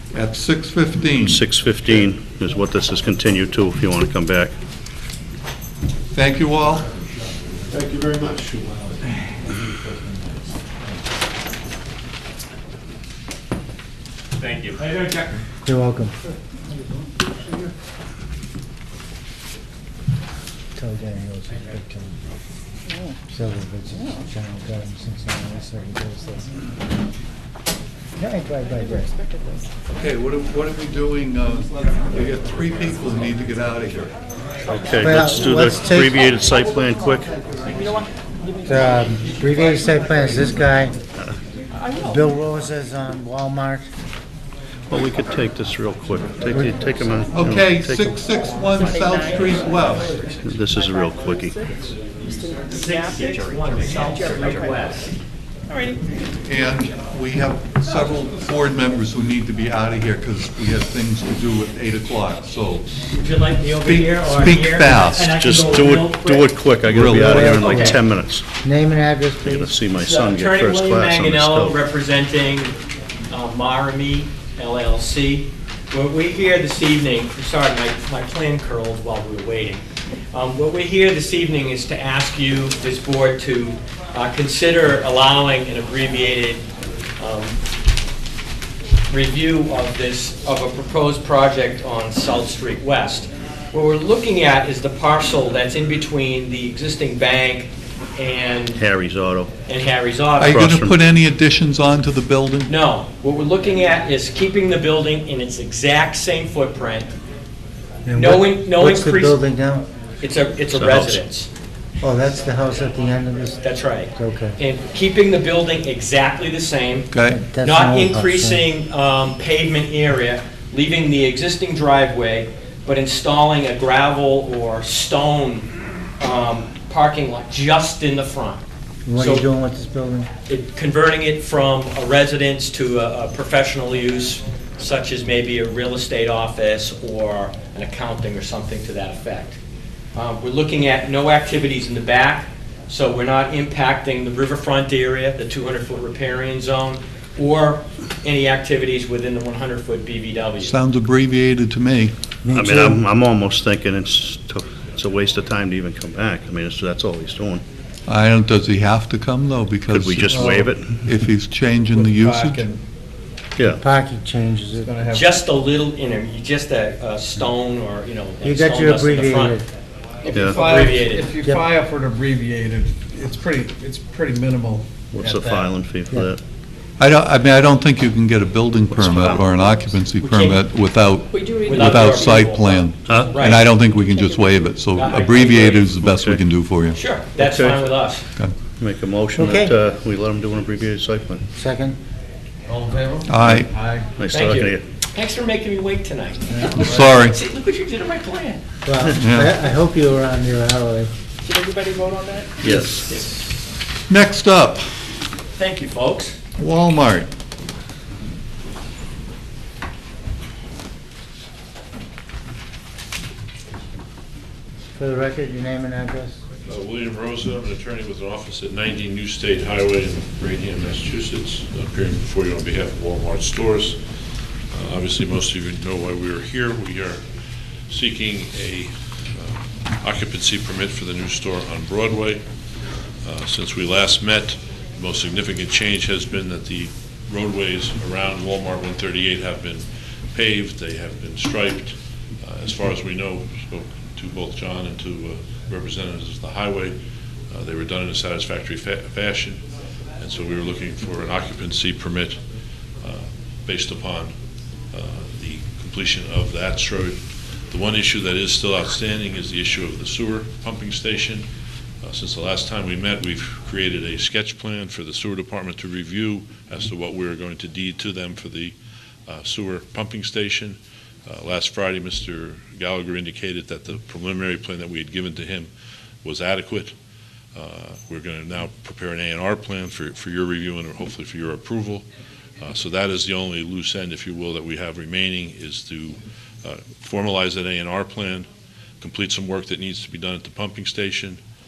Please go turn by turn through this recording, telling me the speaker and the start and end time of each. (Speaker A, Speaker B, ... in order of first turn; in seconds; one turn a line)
Speaker A: 0.1-1.4
Speaker B: 1.2-4.5
Speaker A: 6.1-6.9
Speaker C: 7.9-8.9
Speaker D: 14.4-15.0
Speaker E: 15.6-16.1
Speaker E: 20.8-22.2
Speaker E: 23.3-26.6
Speaker E: 28.2-29.1
Speaker A: 29.9-34.1
Speaker B: 34.6-37.3
Speaker E: 35.0-36.1
Speaker E: 38.6-41.0
Speaker E: 42.0-43.9
Speaker B: 44.9-48.1
Speaker A: 47.3-50.2
Speaker B: 50.4-51.7
Speaker D: 52.7-55.1
Speaker A: 56.5-62.9
Speaker D: 63.1-66.5
Speaker A: 63.8-65.4
Speaker B: 65.3-68.5
Speaker A: 66.8-67.8
Speaker E: 67.2-67.9
Speaker D: 67.5-68.0
Speaker E: 68.6-69.8
Speaker B: 69.4-71.8
Speaker D: 69.9-72.8
Speaker D: 73.3-86.7
Speaker D: 87.2-87.6
Speaker D: 89.1-98.8
Speaker B: 98.8-99.5
Speaker D: 99.7-100.6
Speaker A: 100.4-102.7
Speaker B: 100.5-101.0
Speaker D: 102.7-107.1
Speaker E: 108.1-109.9
Speaker D: 108.1-109.5
Speaker D: 110.2-111.5
Speaker B: 110.7-111.2
Speaker E: 112.0-113.6
Speaker D: 113.6-128.6
Speaker E: 114.2-114.5
Speaker A: 117.1-117.5
Speaker E: 117.2-118.6
Speaker E: 129.1-130.3
Speaker D: 129.2-129.4
Speaker D: 130.5-139.6
Speaker D: 140.2-150.7
Speaker A: 150.6-152.1
Speaker E: 152.5-152.9
Speaker B: 152.5-157.6
Speaker A: 158.1-162.7
Speaker B: 159.9-161.1
Speaker C: 160.3-160.7
Speaker C: 161.9-162.8
Speaker B: 163.6-163.8
Speaker E: 163.7-165.1
Speaker C: 164.8-165.3
Speaker D: 165.1-169.6
Speaker E: 168.5-169.7
Speaker C: 170.2-175.7
Speaker B: 170.3-170.6
Speaker D: 170.4-171.4
Speaker E: 171.4-171.7
Speaker B: 175.1-176.4
Speaker A: 177.0-187.0
Speaker B: 179.0-179.4
Speaker D: 180.2-180.6
Speaker D: 181.7-183.6
Speaker B: 183.1-183.4
Speaker D: 184.9-185.9
Speaker B: 185.9-186.4
Speaker D: 186.9-188.2
Speaker B: 187.4-187.8
Speaker B: 188.8-191.4
Speaker E: 189.4-189.7
Speaker E: 191.6-192.0
Speaker C: 192.7-194.1
Speaker A: 193.3-193.7
Speaker B: 194.2-194.8
Speaker D: 194.3-198.6
Speaker A: 196.7-197.4
Speaker E: 198.8-201.1
Speaker A: 199.1-199.5
Speaker B: 202.6-203.2
Speaker D: 202.9-203.4
Speaker A: 204.1-204.9
Speaker D: 205.6-206.4
Speaker A: 206.6-207.3
Speaker E: 215.0-216.4
Speaker F: 216.7-224.0
Speaker F: 224.7-227.2
Speaker F: 227.9-232.4
Speaker F: 233.2-247.0
Speaker F: 247.5-249.6
Speaker F: 250.2-252.4
Speaker F: 253.0-254.3
Speaker F: 254.9-261.5
Speaker F: 262.0-268.8
Speaker F: 269.3-275.7
Speaker F: 276.2-276.9
Speaker F: 277.6-282.1
Speaker F: 282.6-288.5
Speaker F: 289.0-291.4